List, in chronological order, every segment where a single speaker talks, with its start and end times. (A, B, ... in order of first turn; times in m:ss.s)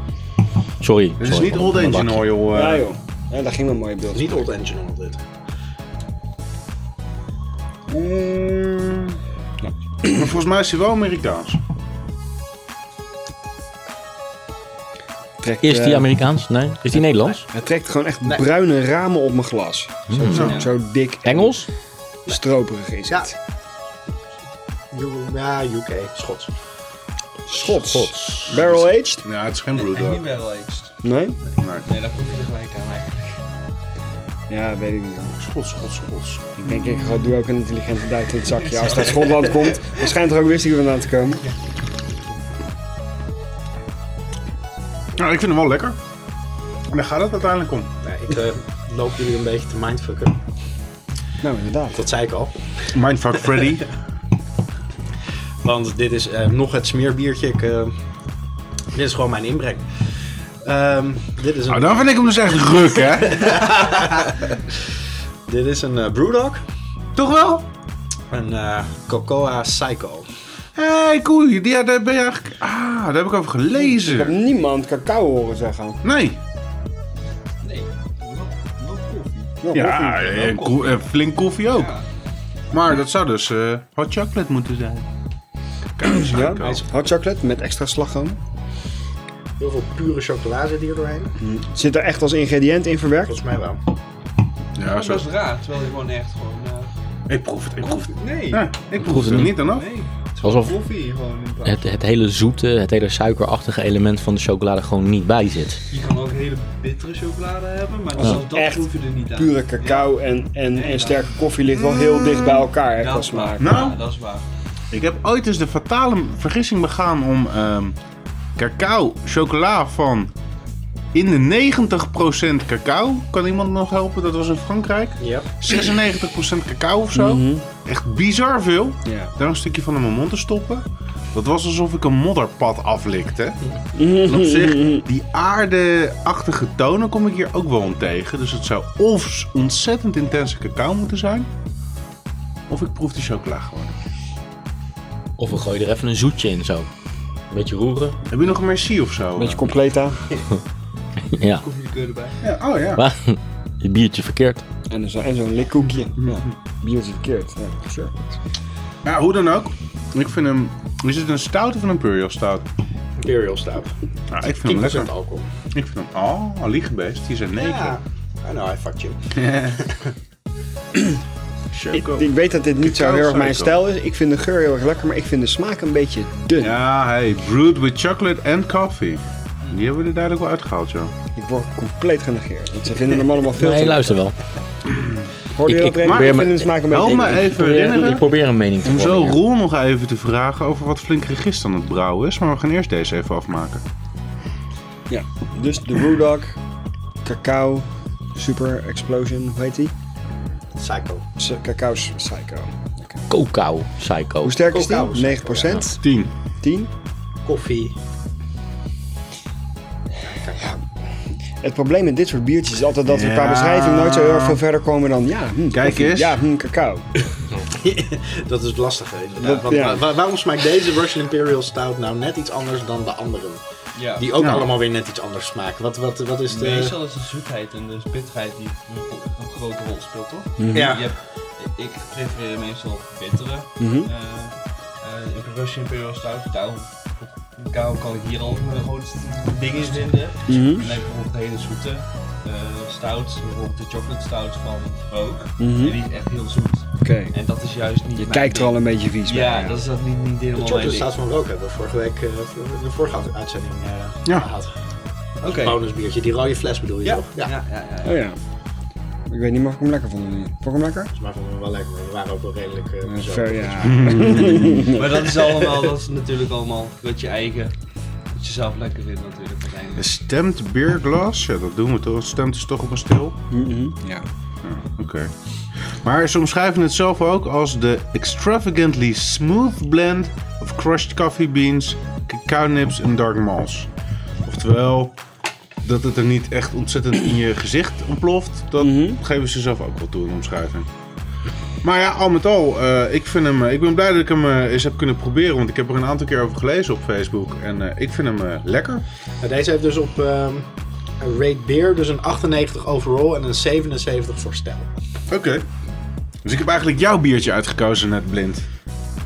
0:00.8-0:02.3 A
0:01.2-0:02.9 B
0:02.5-0:04.5 C
0:04.1-0:05.2 D
0:07.9-0:09.2 B
0:09.6-0:10.2 C
0:10.1-0:11.6 B
0:15.4-0:16.1 C
0:15.6-0:17.4 A
0:17.0-0:17.5 D
0:17.5-0:21.6 C
0:20.1-0:20.6 A
0:20.3-0:20.7 B
0:20.3-0:20.7 E
0:21.2-0:21.7 A
0:22.3-0:23.4 C
0:24.9-0:26.5 D
0:27.5-0:29.2 C
0:27.6-0:28.5 A
0:28.5-0:30.3 B
0:29.7-0:30.9 E
0:31.0-0:31.4 C
0:31.6-0:31.9 B
0:31.8-0:33.4 E
0:34.5-0:35.3 C
0:35.3-0:37.2 B
0:36.6-0:41.4 C
0:38.6-0:39.6 E
0:45.2-0:46.0 B
0:46.9-0:47.9 B
0:48.0-0:50.4 D
0:51.4-0:52.1 C
0:51.9-0:52.6 D
0:52.9-0:53.9 B
0:53.4-0:53.8 D
0:55.6-0:58.0 D
0:58.9-1:04.8 D
1:01.7-1:03.6 B
1:05.5-1:06.6 D
1:07.2-1:07.7 B
1:08.3-1:10.3 D
1:10.8-1:14.3 B
1:13.9-1:16.0 C
1:16.0-1:16.4 B
1:17.6-1:19.6 E
1:19.6-1:20.8 C
1:19.7-1:21.9 B
1:21.7-1:22.1 E
1:22.7-1:25.1 B
1:26.0-1:26.8 B
1:26.0-1:28.4 C
1:29.6-1:31.4 D
1:31.4-1:33.3 C
1:33.3-1:33.8 D
1:34.8-1:35.3 B
1:34.8-1:36.9 E
1:37.3-1:39.9 B
1:37.8-1:38.6 E
1:39.0-1:39.6 A
1:39.6-1:41.9 E
1:40.4-1:40.8 A
1:41.6-1:45.8 A
1:45.9-1:50.1 E
1:48.2-1:53.8 C
1:50.7-1:51.4 E
1:51.7-1:52.7 B
1:53.0-1:54.4 E
1:53.6-1:54.0 B
1:54.9-1:58.0 B
1:58.6-2:00.3 B
2:01.1-2:13.6 B
2:05.2-2:05.5 D
2:07.1-2:07.7 C
2:09.1-2:09.3 C
2:14.0-2:15.0 C
2:14.2-2:21.5 B
2:22.7-2:24.0 B
2:25.4-2:26.9 A
2:27.5-2:28.2 A
2:28.3-2:29.6 B
2:29.4-2:30.2 C
2:31.3-2:31.6 A
2:31.6-2:32.4 E
2:32.4-2:33.0 B
2:32.9-2:34.6 A
2:34.9-2:38.4 C
2:39.0-2:42.7 B
2:43.2-2:43.9 D
2:44.3-2:45.1 B
2:44.5-2:45.5 D
2:45.7-2:48.0 B
2:47.6-2:50.1 D
2:49.4-2:49.8 B
2:51.7-2:52.3 B
2:51.9-2:56.8 C
2:52.8-2:53.8 B
2:56.6-3:01.1 B
3:01.4-3:04.2 C
3:03.5-3:04.4 A
3:05.6-3:07.7 C
3:05.6-3:06.7 A
3:06.1-3:08.3 B
3:07.4-3:09.4 A
3:08.8-3:13.8 B
3:15.1-3:16.6 C
3:17.2-3:19.9 C
3:20.8-3:21.3 D
3:21.4-3:23.2 C
3:23.3-3:24.6 A
3:24.4-3:26.0 C
3:24.7-3:25.8 D
3:26.0-3:26.3 B
3:26.6-3:26.9 C
3:27.4-3:28.0 D
3:30.2-3:30.6 D
3:30.6-3:30.8 C
3:31.6-3:37.1 C
3:33.1-3:34.6 B
3:35.7-3:36.4 B
3:37.7-3:43.6 D
3:39.4-3:40.1 C
3:44.0-3:44.3 E
3:44.2-3:47.0 D
3:44.4-3:44.8 B
3:46.5-4:11.1 E
3:50.6-3:51.0 C
3:50.7-3:51.0 D
3:53.8-3:54.1 C
4:00.5-4:00.9 C
4:05.6-4:06.0 C
4:07.0-4:07.4 C
4:08.2-4:09.8 C
4:10.6-4:14.7 D
4:15.4-4:15.9 E
4:15.4-4:17.5 D
4:17.0-4:18.2 E
4:18.0-4:18.4 C
4:19.3-4:21.1 C
4:21.1-4:24.5 D
4:23.0-4:25.5 C
4:23.8-4:24.9 B
4:25.0-4:27.7 E
4:28.3-4:30.0 E
4:30.0-4:33.4 B
4:33.5-4:34.3 C
4:34.6-4:35.3 B
4:35.9-4:43.9 B
4:44.4-4:45.2 B
4:45.8-4:50.9 B
4:48.8-4:49.2 C
4:51.8-4:59.0 B
4:59.4-5:00.7 D
5:01.2-5:04.9 D
5:05.3-5:05.6 B
5:06.4-5:08.6 B